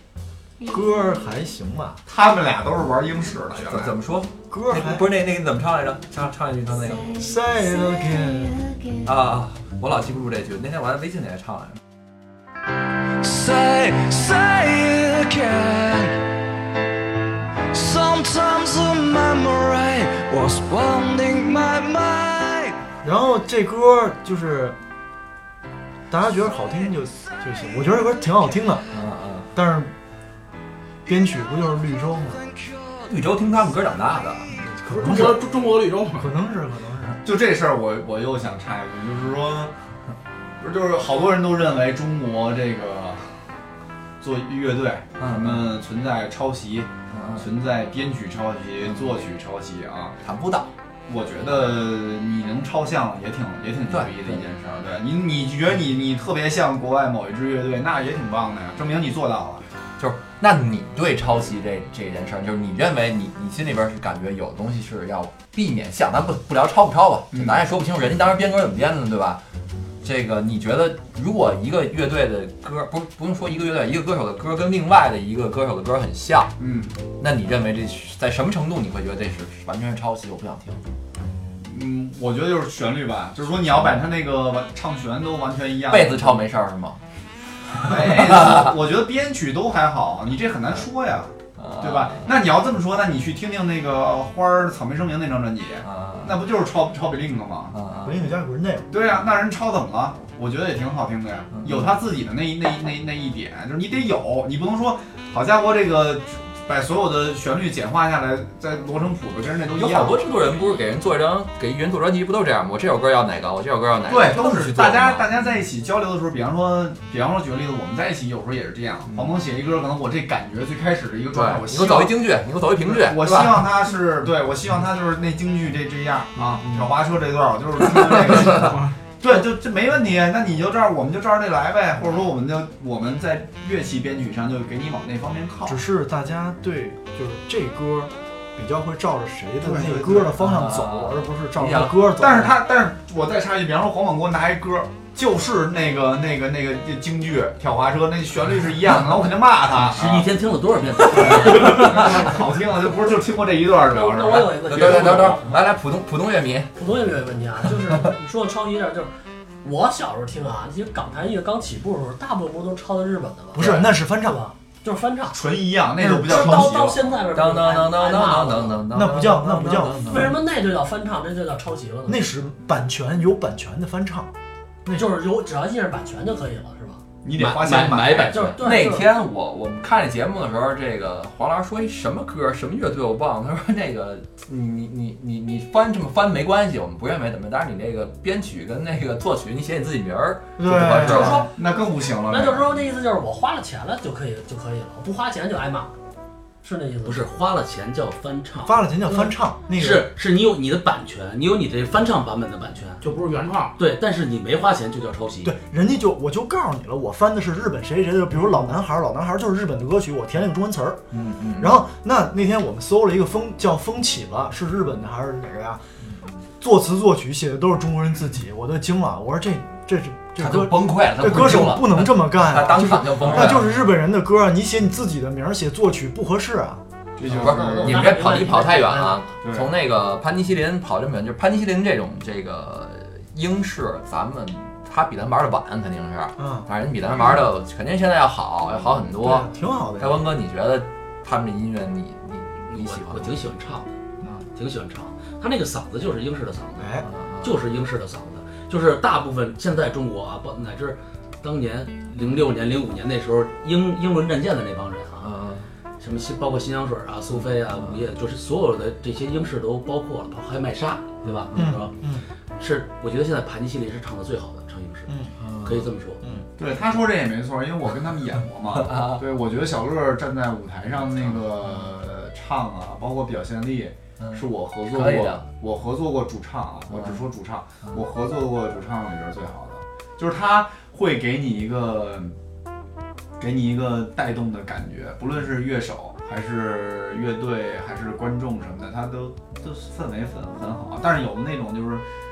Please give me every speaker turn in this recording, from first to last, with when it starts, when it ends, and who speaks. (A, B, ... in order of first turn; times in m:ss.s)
0:00.7-0:02.0 A
0:02.1-0:04.0 B
0:03.6-0:07.1 C
0:04.5-0:05.1 A
0:07.1-0:08.7 A
0:09.0-0:11.8 C
0:13.2-0:16.3 D
0:17.7-0:22.8 D
0:23.0-0:24.8 A
0:26.1-0:28.9 A
0:28.9-0:29.5 C
0:29.5-0:29.9 A
0:31.1-0:32.4 A
0:33.0-0:34.6 C
0:34.7-0:35.4 A
0:34.9-0:36.3 E
0:36.2-0:37.2 A
0:37.2-0:39.7 B
0:40.6-0:43.3 B
0:44.2-0:50.2 B
0:45.2-0:45.7 C
0:47.1-0:47.4 C
0:50.2-0:50.7 C
0:51.1-0:59.6 B
0:53.9-0:54.4 C
1:00.0-1:09.4 C
1:07.3-1:07.6 B
1:10.0-1:16.5 C
1:16.6-1:17.0 B
1:17.2-1:20.8 C
1:21.6-1:26.5 B
1:23.6-1:24.1 C
1:25.9-1:27.0 C
1:27.8-1:37.8 B
1:27.8-1:28.7 C
1:31.6-1:32.3 C
1:35.8-1:36.4 C
1:37.7-1:38.2 C
1:38.0-1:38.9 A
1:38.9-1:50.3 B
1:41.5-1:41.9 C
1:49.7-1:55.3 C
1:54.1-2:15.8 B
2:01.3-2:03.7 C
2:08.5-2:08.9 E
2:15.7-2:22.6 A
2:19.6-2:20.3 E
2:20.4-2:22.0 C
2:22.2-2:30.3 B
2:29.8-2:32.3 F
2:31.1-2:35.3 B
2:31.6-2:31.9 C
2:33.9-2:35.5 G
2:34.6-2:36.7 C
2:36.8-2:39.1 G
2:39.6-2:45.4 G
2:43.5-2:44.5 A
2:45.3-2:47.0 B
2:46.2-2:48.9 G
2:46.5-2:50.4 C
2:48.9-2:50.3 A
2:49.9-2:52.2 G
2:52.1-2:54.3 A
2:55.0-2:57.0 G
2:57.2-2:58.5 B
2:57.4-2:58.6 F
2:58.3-2:59.1 G
2:58.5-3:11.5 C
3:10.6-3:11.5 A
3:11.1-3:12.7 B
3:12.3-3:15.9 G
3:16.6-3:17.2 G
3:17.0-3:18.9 F
3:18.6-3:20.1 A
3:19.1-3:19.3 G
3:19.7-3:23.0 F
3:23.0-3:23.8 E
3:23.8-3:25.6 F
3:25.4-3:31.0 A
3:31.1-3:31.8 C
3:31.6-3:35.8 A
3:36.6-3:46.8 A
3:40.4-3:43.8 C
3:43.2-3:43.6 B
3:47.2-3:48.1 B
3:47.3-4:03.4 C
3:47.3-3:49.3 G
3:49.4-3:49.7 B
3:56.4-3:56.7 A
3:59.2-4:00.3 A
4:02.7-4:03.9 F
4:04.6-4:15.3 F
4:06.8-4:07.1 A
4:07.0-4:07.5 C
4:15.2-4:15.7 C
4:16.0-4:22.0 F
4:21.5-4:21.8 C
4:21.6-4:22.3 A
4:22.6-4:26.2 F
4:25.1-4:25.3 A
4:25.4-4:25.9 C
4:26.6-4:42.4 B
4:28.7-4:29.2 C
4:34.2-4:35.4 C
4:35.0-4:35.3 F
4:36.9-4:37.2 C
4:43.4-4:52.0 B